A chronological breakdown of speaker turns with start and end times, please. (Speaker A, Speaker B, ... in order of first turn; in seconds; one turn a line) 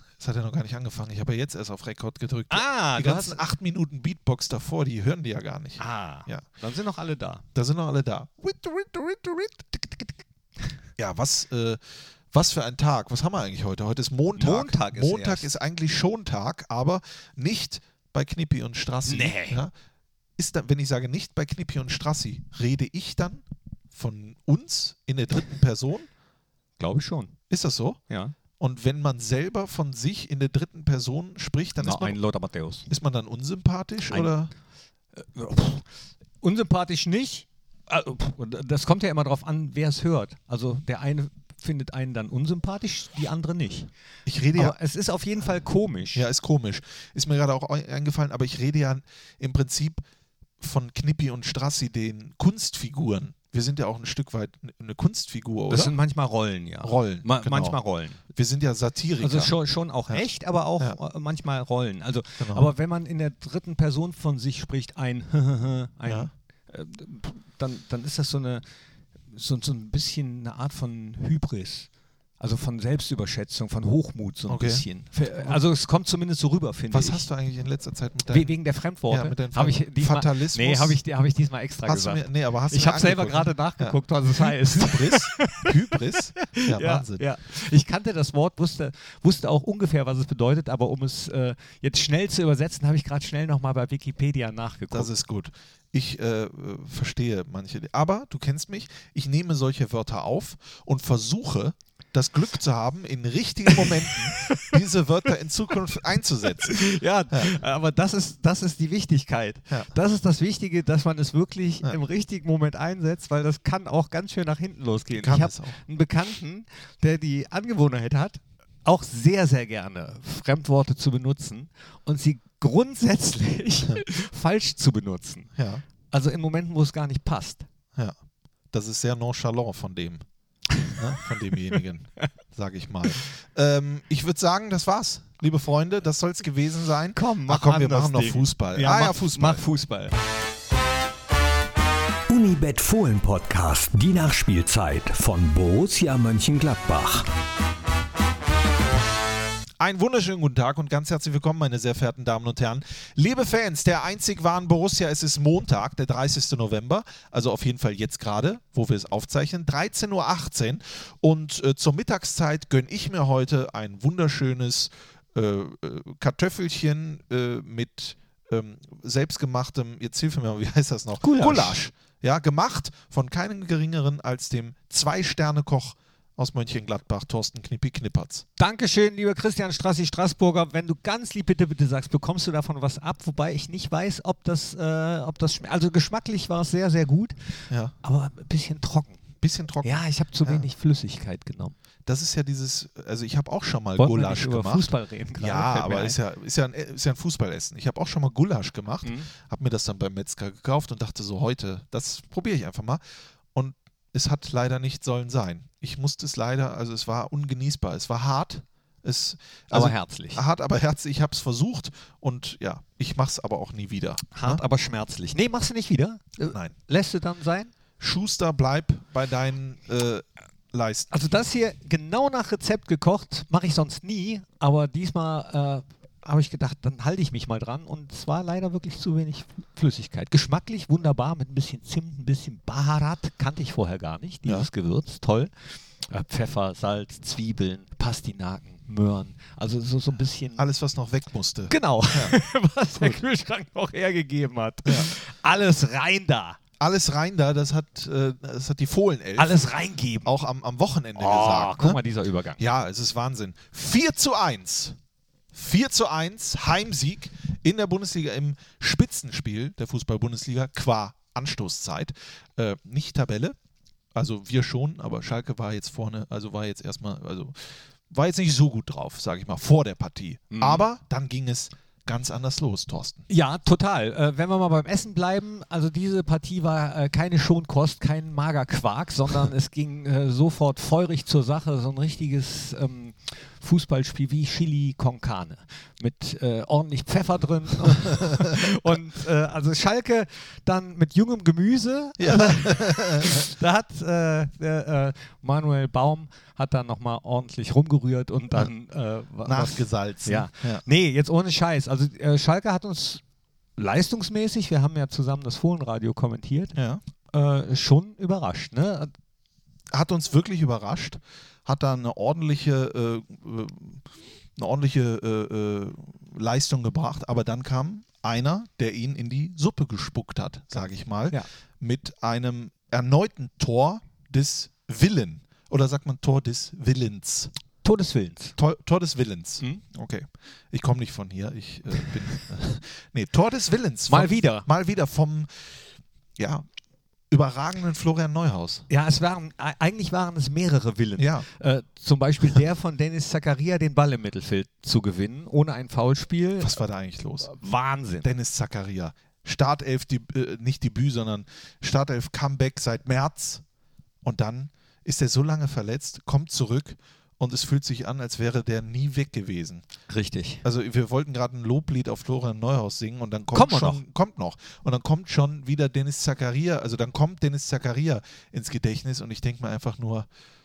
Speaker A: 0.2-6.4
Speaker B: 2.5-3.4
Speaker B: 5.8-7.4
Speaker A: 7.5-10.0
Speaker A: 11.0-11.8
Speaker A: 12.3-19.7
Speaker B: 14.3-15.5
Speaker B: 19.1-19.6
Speaker A: 20.4-26.1
Speaker B: 26.8-27.4
Speaker A: 27.5-28.0
Speaker B: 28.1-28.3
Speaker A: 28.6-32.1
Speaker B: 31.8-32.9
Speaker A: 32.9-34.5
Speaker B: 35.1-35.9
Speaker B: 36.4-43.9
Speaker A: 44.2-44.8
Speaker B: 44.5-46.2
Speaker A: 46.1-50.0
Speaker A: 50.6-55.9
Speaker B: 55.7-58.2
Speaker A: 56.8-57.8
Speaker A: 58.3-59.5
Speaker B: 59.2-68.6
Speaker A: 62.4-62.7
Speaker A: 66.0-66.3
Speaker B: 69.3-71.9
Speaker B: 72.4-77.3
Speaker A: 74.5-75.6
Speaker A: 76.9-81.0
Speaker B: 78.3-95.1
Speaker A: 81.8-87.2
Speaker A: 94.9-107.5
Speaker B: 104.4-104.7
Speaker B: 106.6-125.5
Speaker A: 115.2-115.8
Speaker A: 125.5-125.8
Speaker B: 126.1-127.7
Speaker A: 128.7-130.2
Speaker A: 130.9-139.6
Speaker B: 137.1-140.1
Speaker C: 142.3-147.3
Speaker A: 149.8-178.4
Speaker B: 171.2-171.8
Speaker B: 178.6-187.5
Speaker B: 188.0-189.2
Speaker A: 189.4-189.9
Speaker B: 189.8-191.7
Speaker A: 192.1-203.0
Speaker B: 194.0-196.2
Speaker B: 199.0-199.3
Speaker A: 203.5-214.6
Speaker B: 209.7-210.4
Speaker B: 214.3-217.7
Speaker A: 218.0-221.1
Speaker B: 221.1-235.5
Speaker B: 236.1-240.6
Speaker A: 240.6-242.4
Speaker B: 241.7-246.6
Speaker A: 242.9-243.2
Speaker A: 244.8-245.1
Speaker A: 246.8-249.7
Speaker B: 249.4-250.3
Speaker A: 250.2-252.0
Speaker B: 251.1-252.6
Speaker A: 252.6-255.0
Speaker A: 255.5-263.5
Speaker A: 264.1-273.2
Speaker B: 270.5-270.8
Speaker B: 273.3-303.2
Speaker A: 292.2-293.5
Speaker A: 299.4-300.8
Speaker B: 303.8-306.8
Speaker A: 306.7-307.0
Speaker B: 307.3-309.1
Speaker A: 309.9-327.5
Speaker B: 327.8-328.6
Speaker A: 328.6-335.8
Speaker B: 334.1-334.7
Speaker A: 336.4-336.6
Speaker A: 337.3-338.9
Speaker B: 338.9-346.8
Speaker A: 341.2-341.4
Speaker A: 346.6-347.5
Speaker B: 347.4-348.3
Speaker A: 348.2-353.6
Speaker A: 354.2-359.8
Speaker B: 360.1-360.6
Speaker A: 360.6-370.3
Speaker B: 363.5-364.0